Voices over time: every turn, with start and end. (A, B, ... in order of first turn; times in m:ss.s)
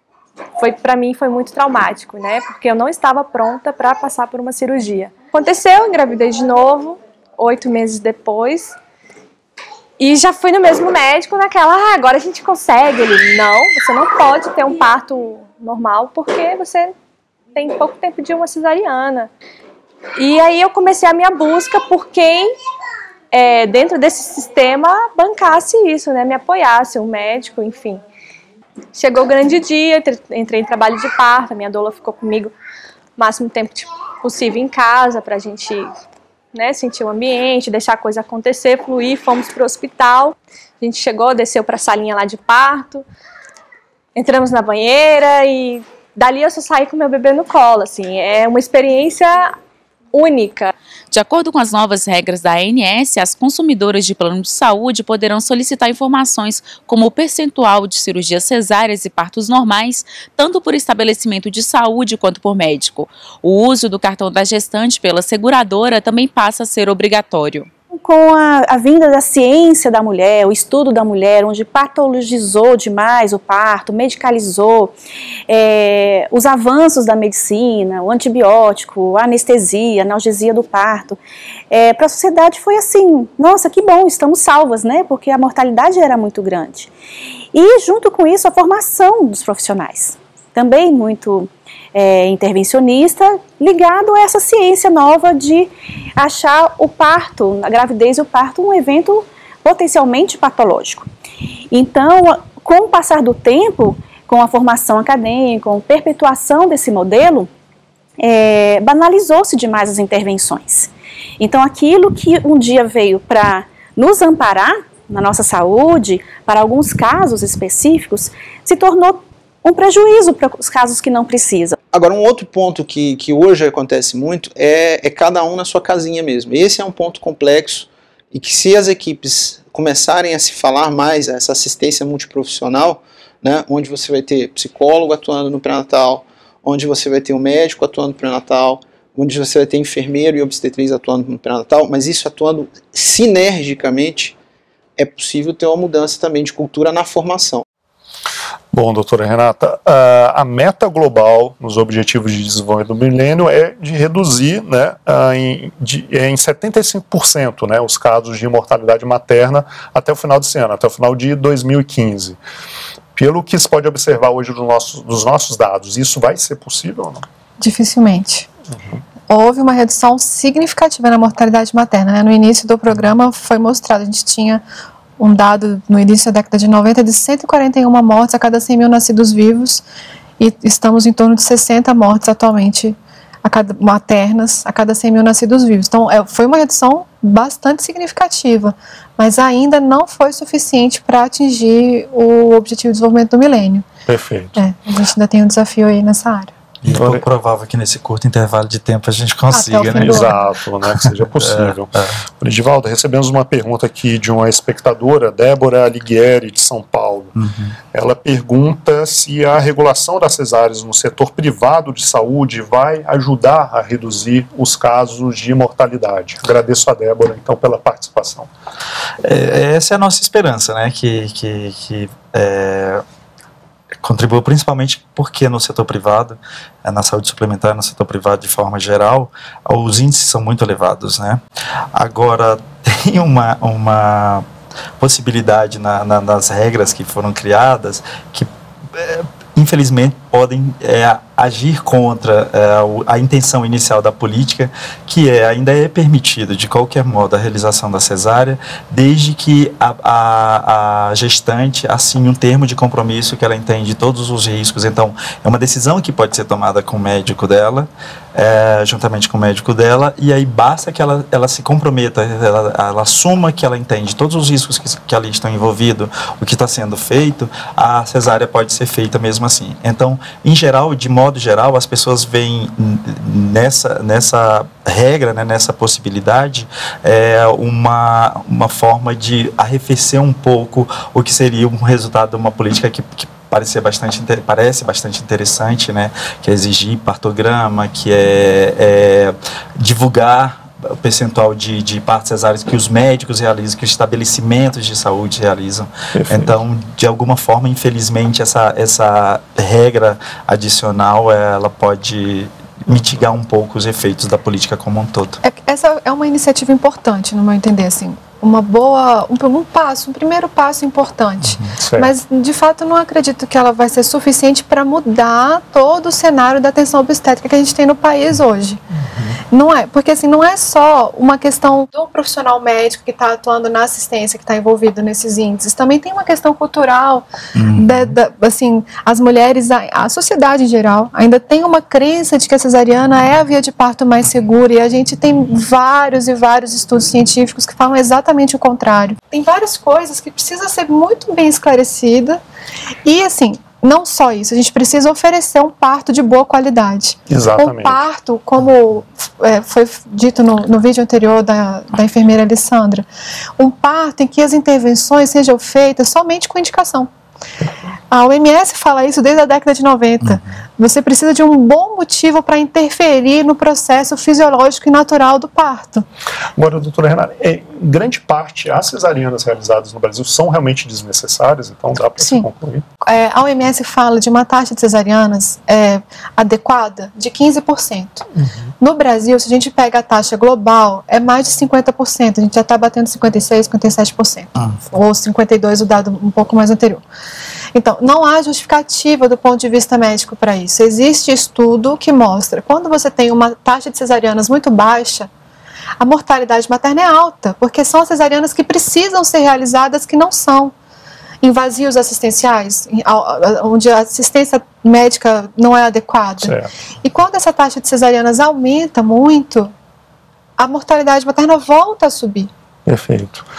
0:00.6-0:08.8 A
0:10.0-0:16.9 A
0:17.5-0:19.3 A
0:20.2-0:22.5 A
0:23.3-0:28.0 A
0:28.9-0:32.5 A
0:33.2-0:35.9 A
0:36.5-0:43.1 A
0:44.1-0:49.5 A
0:50.1-0:50.7 A
0:51.1-1:07.7 B
1:07.9-1:15.0 C
1:15.5-1:21.2 C
1:21.7-1:26.9 C
1:27.5-1:41.1 C
1:41.7-1:47.5 C
1:48.2-2:01.8 C
2:01.9-2:24.4 D
2:25.0-2:27.6 D
2:28.7-2:42.4 E
2:43.2-2:47.2 E
2:47.6-2:48.5 F
2:48.8-2:49.0 E
2:49.3-2:54.6 F
2:55.2-2:59.8 F
3:00.4-3:13.9 F
3:14.1-3:14.6 E
3:14.6-3:16.5 F
3:16.8-3:20.3 G
3:16.8-3:17.2 E
3:19.5-3:20.3 F
3:19.9-3:27.3 E
3:21.0-3:22.2 G
3:27.3-3:27.8 G
3:27.9-3:38.5 E
3:39.2-3:43.0 G
3:44.0-3:51.4 G
3:51.9-3:54.4 G
3:55.0-5:05.4 G
4:56.1-4:56.6 E
5:02.9-5:03.2 E
5:05.4-5:18.8 F
5:11.7-5:12.1 E
5:19.0-5:19.4 E
5:19.5-5:42.4 F
5:27.6-5:28.1 G
5:43.0-5:53.0 F
5:47.3-5:48.0 E
5:53.6-5:57.1 F
5:58.1-6:06.0 F
6:00.2-6:00.5 G
6:06.6-6:12.8 E
6:12.2-6:12.5 F
6:13.0-6:18.2 F
6:18.4-6:18.7 E
6:18.8-6:27.0 F
6:27.7-6:35.3 F
6:36.0-6:40.7 F
6:41.4-6:49.7 F
6:46.4-6:46.7 E
6:50.6-6:52.5 F
6:52.8-6:53.5 E